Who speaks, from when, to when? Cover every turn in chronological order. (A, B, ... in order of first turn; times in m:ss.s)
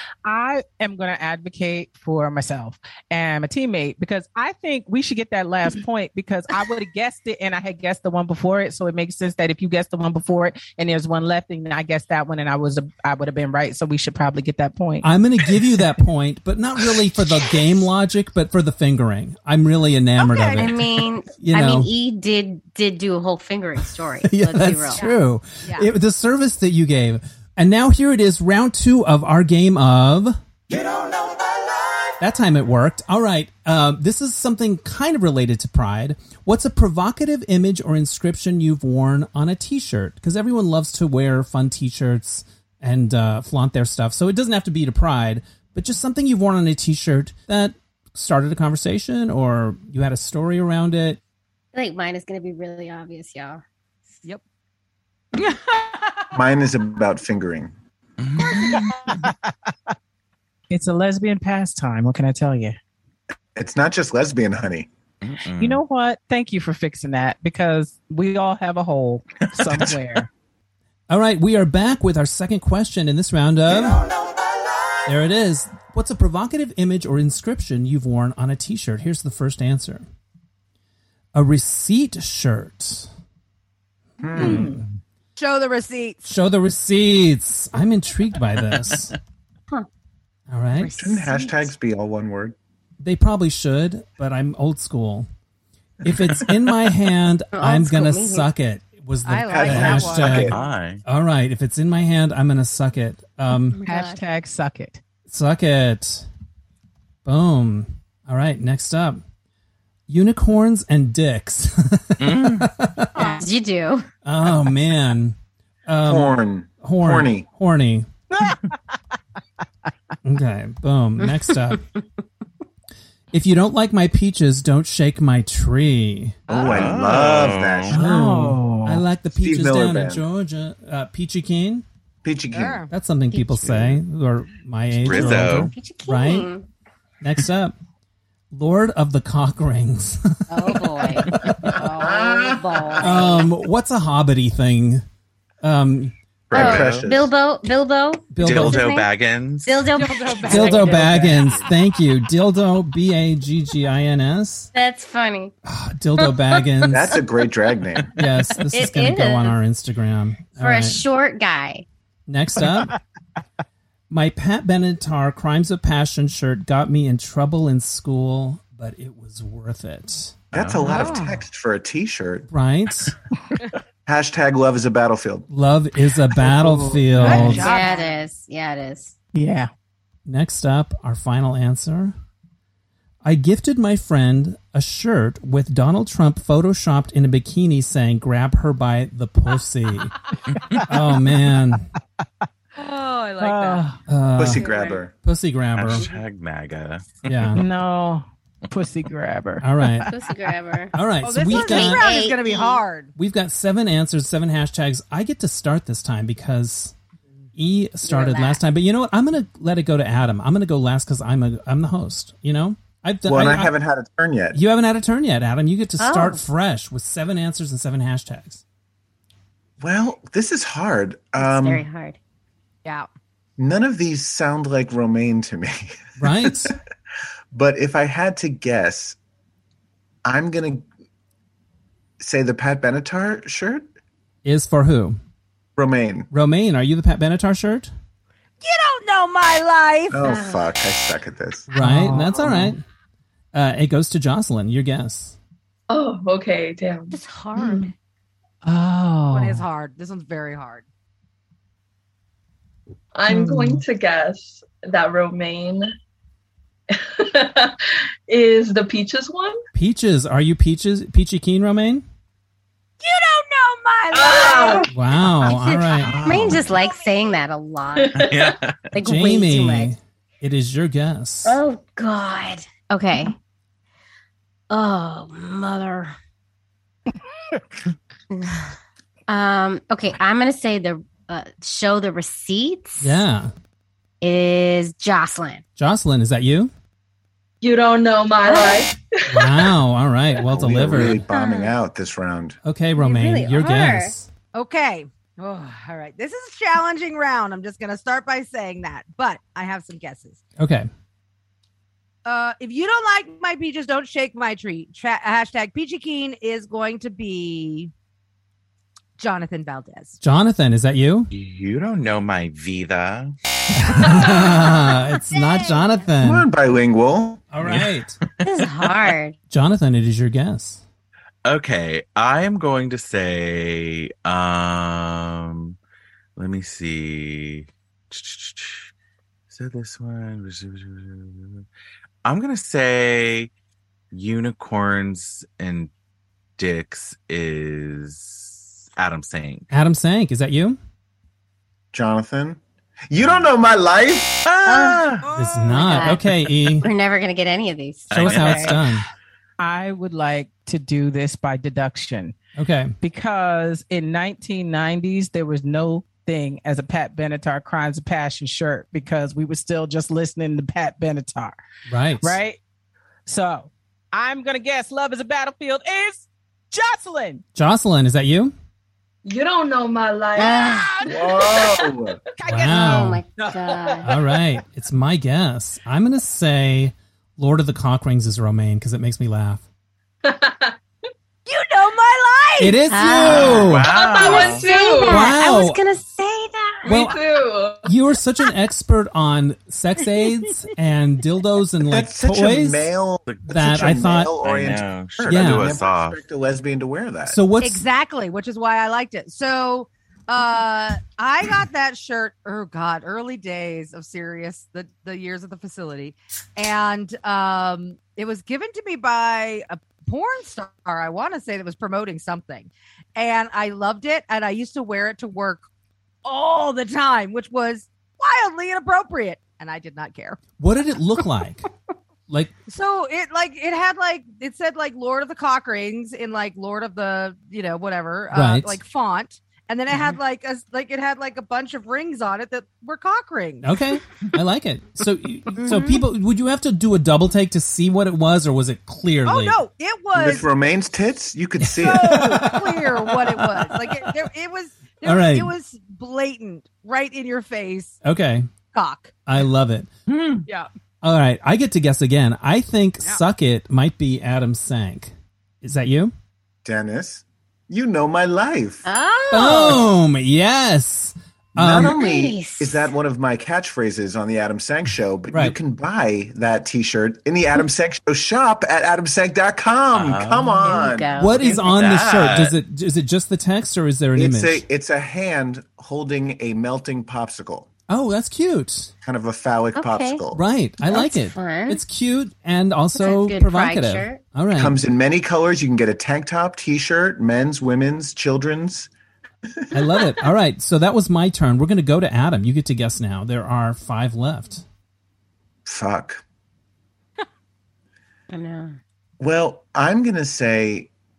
0:00.2-0:15.1 A
0:15.0-0:21.9 B
0:20.2-0:20.7 C
0:20.6-0:25.0 D
0:24.2-0:30.4 B
0:25.6-0:25.9 C
0:32.2-0:51.2 B
0:51.7-0:53.6 D
0:55.4-0:56.2 C
0:56.3-0:57.7 E
0:58.2-0:58.9 F
1:00.7-1:02.8 A
1:03.6-1:04.9 E
1:05.2-1:05.8 F
1:05.6-1:10.3 A
1:09.4-1:10.0 F
1:11.1-1:14.1 B
1:15.1-1:20.0 B
1:21.3-1:23.1 B
1:24.2-1:24.8 E
1:24.4-1:24.7 B
1:24.4-1:24.8 C
1:25.4-1:26.3 C
1:26.3-1:29.2 B
1:30.5-1:30.9 B
1:30.8-1:31.7 D
1:31.0-1:32.6 E
1:33.0-1:35.3 B
1:36.0-1:43.8 B
1:37.5-1:38.5 D
1:39.2-1:40.6 C
1:39.5-1:40.6 E
1:40.4-1:41.0 F
1:43.7-1:44.2 D
1:43.8-1:45.0 A
1:45.3-1:46.2 B
1:47.2-1:49.2 B
1:50.1-1:53.3 B
1:52.2-1:52.7 F
1:53.2-1:54.1 D
1:54.2-1:55.4 B
1:55.9-1:58.1 B
1:56.0-1:57.5 E
1:58.3-1:58.8 A
2:00.2-2:01.8 B
2:01.2-2:02.0 D
2:03.3-2:06.4 B
2:06.5-2:07.0 C
2:06.5-2:08.0 E
2:06.5-2:08.0 F
2:07.9-2:09.0 A
2:07.9-2:11.8 B
2:09.3-2:10.2 E
2:12.2-2:12.8 E
2:12.5-2:12.9 C
2:12.9-2:16.5 B
2:13.3-2:13.7 D
2:15.0-2:15.7 F
2:15.1-2:16.7 D
2:17.2-2:17.7 B
2:18.5-2:21.7 B
2:20.5-2:23.5 D
2:21.5-2:21.7 F
2:22.0-2:23.2 E
2:23.0-2:25.0 B
2:25.6-2:26.1 B
2:26.5-2:27.1 F
2:26.5-2:27.3 E
2:26.5-2:29.1 D
2:28.3-2:28.9 B
2:28.4-2:29.9 F
2:29.6-2:31.7 D
2:29.9-2:31.6 C
2:30.4-2:34.7 B
2:34.8-2:35.5 D
2:35.7-2:37.2 B
2:36.2-2:37.2 D
2:36.9-2:38.1 E
2:38.2-2:41.0 B
2:38.7-2:39.6 D
2:40.6-2:41.9 D
2:42.3-2:43.0 B
2:44.1-2:50.3 B
2:50.5-2:51.2 F
2:50.5-2:52.5 E
2:50.8-2:51.4 C
2:52.5-2:53.1 B
2:54.1-2:55.5 E
2:55.5-2:57.7 B
2:56.5-2:57.7 A
2:57.2-2:58.2 C
2:57.6-2:59.1 D
2:59.3-2:59.7 A
3:00.3-3:02.1 B
3:03.2-3:10.1 B
3:10.5-3:10.8 F
3:10.9-3:11.9 B
3:12.8-3:13.9 C
3:13.4-3:14.0 A
3:14.1-3:14.6 B
3:14.4-3:15.1 E
3:14.4-3:15.0 D
3:15.2-3:16.1 B
3:15.8-3:17.6 F
3:17.3-3:17.6 B
3:17.5-3:20.1 A
3:19.6-3:20.1 B
3:20.0-3:22.8 D
3:20.9-3:22.1 B
3:21.2-3:23.1 C
3:23.2-3:26.9 B
3:27.6-3:33.7 B
3:28.0-3:28.6 D
3:33.2-3:34.6 E
3:34.5-3:38.6 B
3:36.0-3:36.4 D
3:39.8-3:41.9 E
3:41.4-3:42.2 D
3:43.6-3:46.0 E
3:46.2-3:46.8 B
3:47.5-3:49.2 E
3:50.2-3:50.8 E
3:52.2-3:53.8 E
3:54.4-3:55.2 B
3:55.8-3:56.3 E
3:56.3-3:57.9 B
3:58.6-4:00.2 C
4:00.1-4:01.7 E
4:00.2-4:00.6 D
4:01.7-4:02.8 B
4:01.8-4:02.8 A
4:03.5-4:05.4 B
4:05.9-4:07.9 G
4:07.1-4:07.9 D
4:08.6-4:09.6 A
4:09.3-4:10.8 C
4:13.2-4:15.9 G
4:13.3-4:13.8 A
4:16.9-4:19.6 G
4:19.8-4:22.0 B
4:23.0-4:25.5 C
4:24.1-4:24.9 G
4:24.4-4:28.4 D
4:24.9-4:26.2 B
4:26.0-4:26.8 F
4:26.8-4:27.4 C
4:28.0-4:28.5 G
4:28.2-4:29.0 F
4:28.9-4:29.9 D
4:29.0-4:31.6 B
4:31.5-4:33.3 D
4:34.7-4:36.2 D
4:38.3-4:38.7 D
4:39.3-4:43.2 D
4:43.0-4:43.5 B
4:44.2-4:45.6 D
4:45.8-4:46.7 B
4:47.6-4:49.8 G
4:48.4-4:48.9 D
4:49.3-4:51.2 B
4:50.5-4:52.6 E
4:51.3-4:51.7 D
4:52.6-4:54.3 B
4:53.0-4:54.1 D
4:54.5-5:00.4 C
5:00.6-5:00.9 B
5:02.2-5:07.9 C
5:09.2-5:10.2 C
5:10.2-5:11.3 B
5:11.3-5:13.4 F
5:13.7-5:16.5 B
5:13.9-5:16.0 C
5:16.2-5:17.4 E
5:17.5-5:18.2 B
5:18.4-5:19.4 D
5:19.5-5:20.8 B
5:21.5-5:25.8 F
5:26.4-5:28.9 F
5:29.5-5:31.7 F
5:32.2-5:33.5 F
5:34.1-5:35.9 F
5:36.6-5:39.7 F
5:39.7-5:40.8 B
5:41.9-5:44.4 E
5:43.2-5:43.5 F
5:44.4-5:45.3 F
5:44.7-5:45.0 D
5:45.3-5:46.9 B
5:45.5-5:45.9 C
5:45.7-5:48.4 D
5:48.1-5:48.8 F
5:48.1-5:49.1 B
5:48.3-5:48.9 A
5:49.6-5:52.4 A
5:52.6-5:53.0 B
5:53.0-6:01.6 A
6:01.9-6:02.4 B
6:02.2-6:02.6 A
6:03.3-6:07.4 A
6:07.6-6:08.5 B
6:09.2-6:12.0 G
6:10.4-6:11.0 D
6:11.1-6:12.2 E
6:12.4-6:14.5 A
6:12.5-6:13.2 B
6:12.8-6:14.1 D
6:14.0-6:19.6 B
6:20.2-6:20.8 G
6:21.5-6:23.0 C
6:22.6-6:23.9 B
6:22.9-6:27.1 D
6:23.2-6:24.7 F
6:23.9-6:25.4 G
6:25.0-6:25.8 B
6:26.8-6:27.9 G
6:26.9-6:27.2 B
6:27.8-6:32.9 B
6:31.9-6:37.4 E
6:33.5-6:34.4 B
6:34.4-6:36.2 F
6:35.2-6:35.8 B
6:37.3-6:37.8 B
6:37.6-6:55.6 C
6:56.2-7:00.4 C
7:00.6-7:01.7 B
7:02.7-7:13.7 C
7:08.3-7:08.8 B
7:13.6-7:19.6 B
7:15.6-7:16.0 C
7:19.3-7:20.5 C
7:20.2-7:22.4 E
7:21.6-7:24.1 B
7:21.8-7:28.0 C
7:25.0-7:25.5 B
7:28.0-7:28.5 B
7:28.7-7:29.1 C
7:29.3-7:29.9 B
7:31.0-7:36.1 B
7:36.6-7:38.8 E
7:38.8-7:39.9 D
7:39.3-7:42.0 B
7:41.6-7:51.3 E
7:41.9-7:42.9 D
7:45.3-7:45.6 B
7:49.9-7:50.7 F
7:50.6-7:51.7 D
7:51.2-7:54.6 B
7:51.6-7:52.6 F
7:54.2-7:57.7 E
7:57.9-7:58.9 B
7:59.0-8:00.4 E
7:59.8-8:00.2 D
8:00.3-8:04.8 B
8:00.9-8:01.8 D
8:03.0-8:04.2 D
8:04.6-8:08.9 E
8:09.7-8:14.6 B
8:15.6-8:16.2 E
8:18.3-8:18.8 D
8:19.2-8:20.9 E